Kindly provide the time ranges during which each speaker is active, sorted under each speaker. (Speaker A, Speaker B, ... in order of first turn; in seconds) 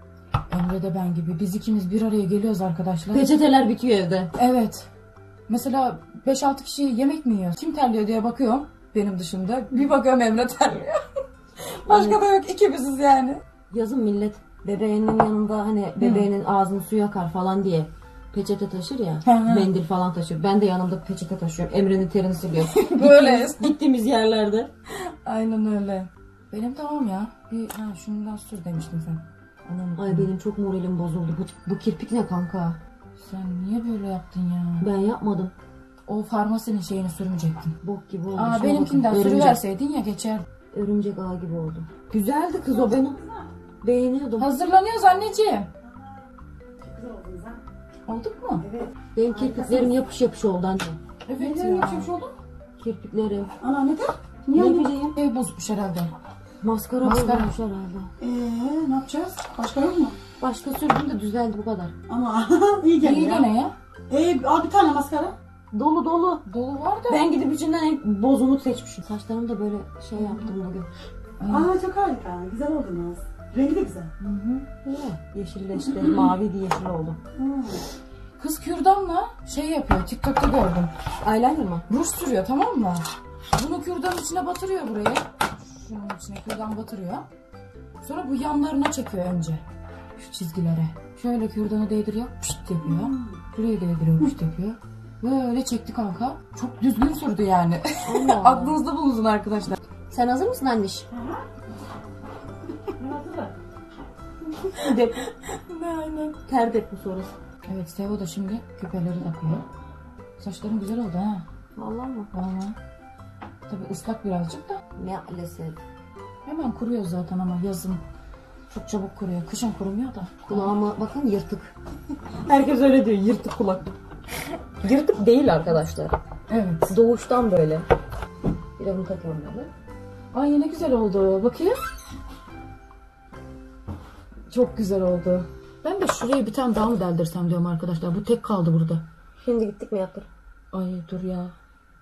Speaker A: 0.5-3.3, 4.4-4.9, 5.5-11.0, 11.8-13.4, 16.0-16.3, 19.2-19.7, 22.7-23.7, 25.2-30.3, 33.2-34.9, 36.1-37.7, 38.4-40.5, 44.4-45.7, 48.1-48.6, 51.3-52.4, 54.5-56.1, 57.0-57.5, 63.0-63.7, 66.5-67.2, 71.4-71.7, 74.2-74.7, 78.4-80.9, 81.9-87.3, 88.0-89.6, 90.2-99.8, 105.5-106.4, 107.7-109.7, 110.4-111.5, 112.3-112.8, 113.7-114.8, 116.5-118.0, 118.7-120.8, 126.5-127.0, 130.3-131.8, 134.5-139.0, 140.7-141.6
Speaker B: 3.1-4.3, 11.9-12.2, 13.7-24.7, 30.0-32.8, 34.8-35.5, 37.8-39.6, 40.7-43.2, 43.8-44.5, 49.1-51.0, 52.8-53.5, 54.5-55.2, 56.6-58.1, 60.4-62.0, 65.7-66.4, 67.1-70.9, 74.8-77.2, 81.2-81.8, 98.1-98.8, 100.1-101.1, 104.7-105.2, 106.5-107.3, 111.8-112.3, 115.0-115.8, 120.5-121.7, 122.5-123.9, 124.8-126.2, 126.9-127.9, 128.8-129.7, 139.4-140.3
Speaker C: 42.7-43.5, 46.8-47.6, 48.6-49.9, 51.4-52.1, 53.6-54.1, 58.2-60.1, 62.1-63.5, 64.1-65.3, 71.5-74.1, 77.3-77.8, 92.8-93.4, 101.1-101.4, 103.0-103.5